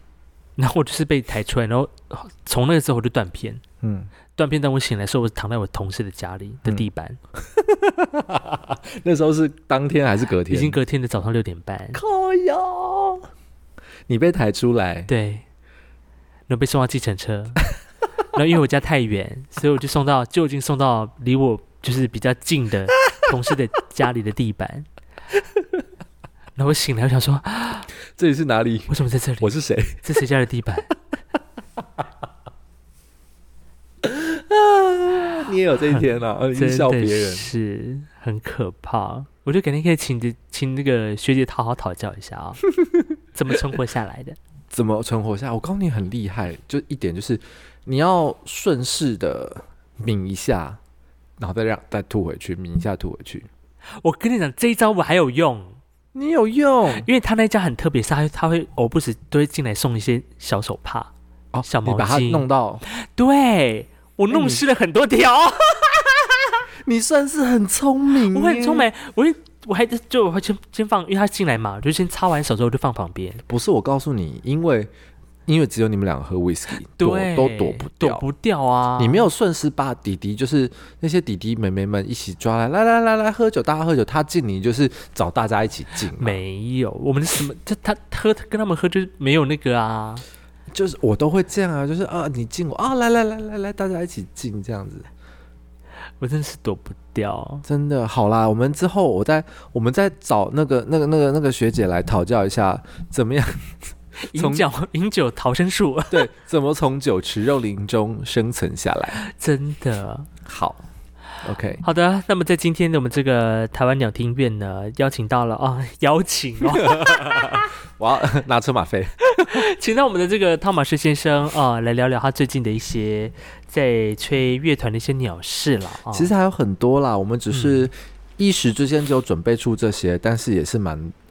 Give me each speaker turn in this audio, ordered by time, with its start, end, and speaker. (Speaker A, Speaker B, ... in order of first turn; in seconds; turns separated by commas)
Speaker A: 0.6-3.6, Speaker B: 3.8-4.1, Speaker A: 4.4-7.2, Speaker B: 7.4-10.8, Speaker A: 10.5-12.0, Speaker B: 11.9-13.2, Speaker B: 14.1-15.1, Speaker A: 15.1-15.4, Speaker A: 16.5-17.6, Speaker A: 18.3-24.9, Speaker A: 26.6-27.9, Speaker B: 28.1-30.0, Speaker A: 28.9-29.5, Speaker A: 30.0-30.9, Speaker B: 34.0-37.5, Speaker A: 35.9-42.6, Speaker A: 43.3-44.4, Speaker B: 44.7-50.8, Speaker B: 51.4-53.5, Speaker A: 54.0-55.8, Speaker B: 56.1-57.1, Speaker A: 56.9-61.1, Speaker B: 61.5-62.8, Speaker A: 61.6-66.0, Speaker B: 64.3-64.6, Speaker B: 66.8-68.9, Speaker A: 68.3-73.4, Speaker B: 73.5-74.9, Speaker B: 75.5-78.2, Speaker A: 77.0-79.3, Speaker B: 79.0-86.4, Speaker A: 86.2-90.2, Speaker B: 90.7-95.1, Speaker A: 96.2-97.6, Speaker B: 97.6-104.7, Speaker A: 104.2-106.3, Speaker B: 106.1-109.2, Speaker A: 109.2-110.3, Speaker B: 110.4-110.8, Speaker B: 111.4-111.8, Speaker A: 111.8-117.7, Speaker B: 116.7-119.6, Speaker A: 119.3-126.3, Speaker B: 126.1-131.1, Speaker A: 127.5-127.9